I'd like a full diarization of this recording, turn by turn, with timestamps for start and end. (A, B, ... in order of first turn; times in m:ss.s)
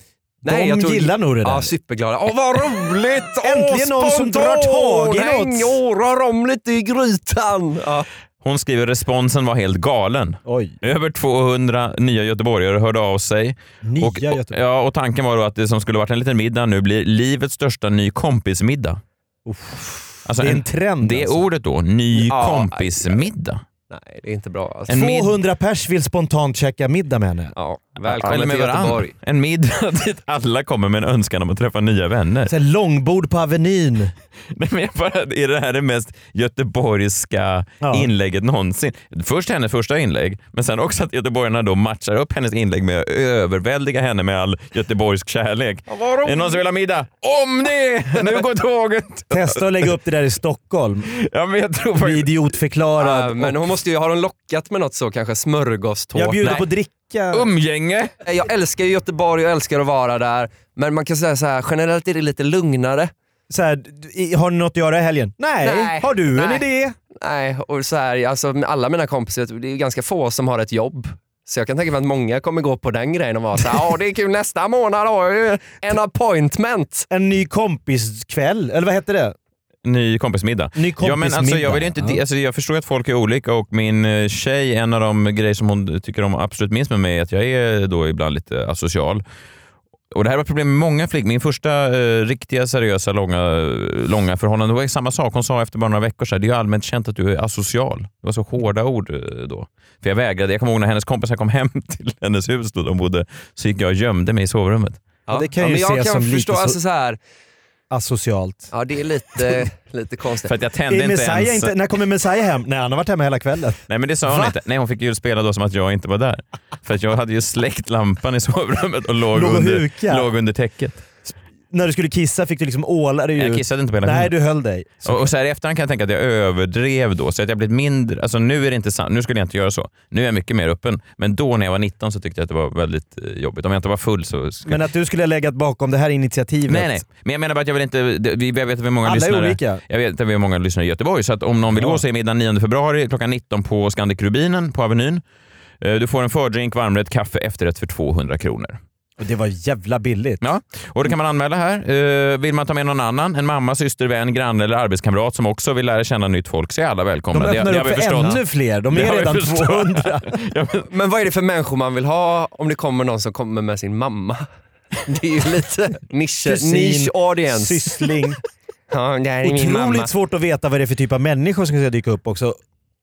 0:00.4-0:08.1 A
0:00.4-0:01.7 B
0:03.4-0:05.8 B
0:08.4-0:19.0 C
0:10.4-0:10.8 B
0:13.8-0:14.6 B
0:19.4-0:21.4 B
0:20.2-0:23.6 C
0:22.1-0:23.2 A
0:23.9-0:25.0 A
0:24.9-0:27.5 B
0:24.9-0:25.3 C
0:27.6-0:29.1 A
0:28.0-0:32.5 C
0:32.5-0:34.1 B
0:34.5-0:49.8 C
0:37.8-0:38.1 B
0:45.9-0:46.6 A
0:49.3-0:51.1 B
0:51.1-0:52.5 C
0:52.0-0:53.6 B
0:53.0-0:56.7 A
0:56.1-0:57.5 B
0:57.3-0:58.1 C
0:58.2-1:03.1 A
1:03.5-1:07.0 B
1:05.6-1:17.1 A
1:17.1-1:19.4 B
1:19.8-1:29.2 C
1:20.8-1:22.2 B
1:30.1-1:45.0 C
1:45.3-1:47.2 A
1:45.3-1:46.8 B
1:47.9-1:48.7 B
1:48.7-1:50.5 A
1:50.4-1:51.7 C
1:50.9-1:54.6 B
1:53.9-2:01.1 C
1:59.3-2:00.3 B
2:01.7-2:05.3 B
2:03.4-2:04.3 C
2:05.0-2:14.8 C
2:14.6-2:17.0 B
2:16.7-2:25.2 C
2:19.0-2:19.8 B
2:21.7-2:22.0 B
2:25.8-2:28.8 C
2:29.2-2:30.4 B
2:30.4-2:40.9 C
2:37.3-2:40.3 B
2:40.9-2:44.4 A
2:45.0-2:48.1 A
2:46.4-2:48.4 B
2:48.9-2:50.1 A
2:49.4-2:52.6 B